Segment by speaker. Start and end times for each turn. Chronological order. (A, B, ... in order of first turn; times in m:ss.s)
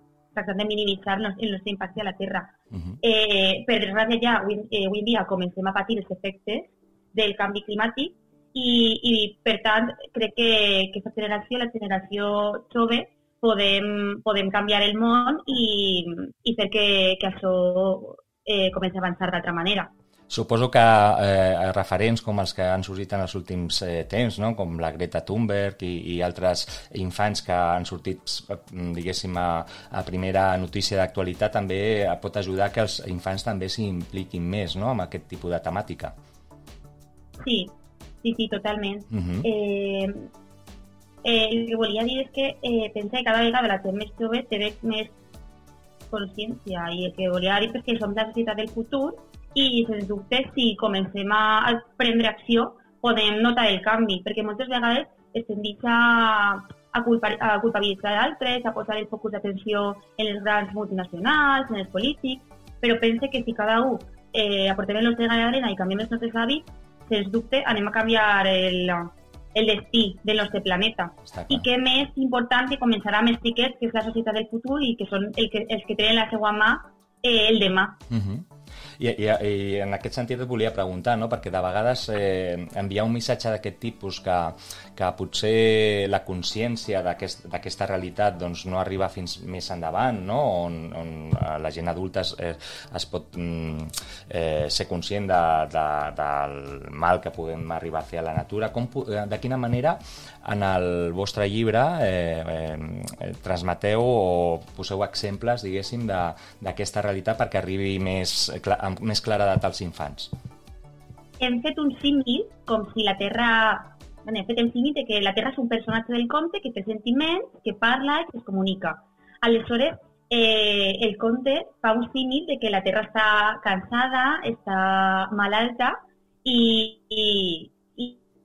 0:00.3-0:19.9 A
0:02.7-0:03.0 B
0:20.3-0:36.2 B
0:37.4-0:37.7 A
0:38.2-0:40.3 A
0:39.1-0:39.5 B
0:41.2-0:45.1 A
0:46.1-1:18.0 A
1:11.3-1:11.7 B
1:18.1-1:18.5 B
1:19.0-1:50.3 B
1:51.4-2:08.2 A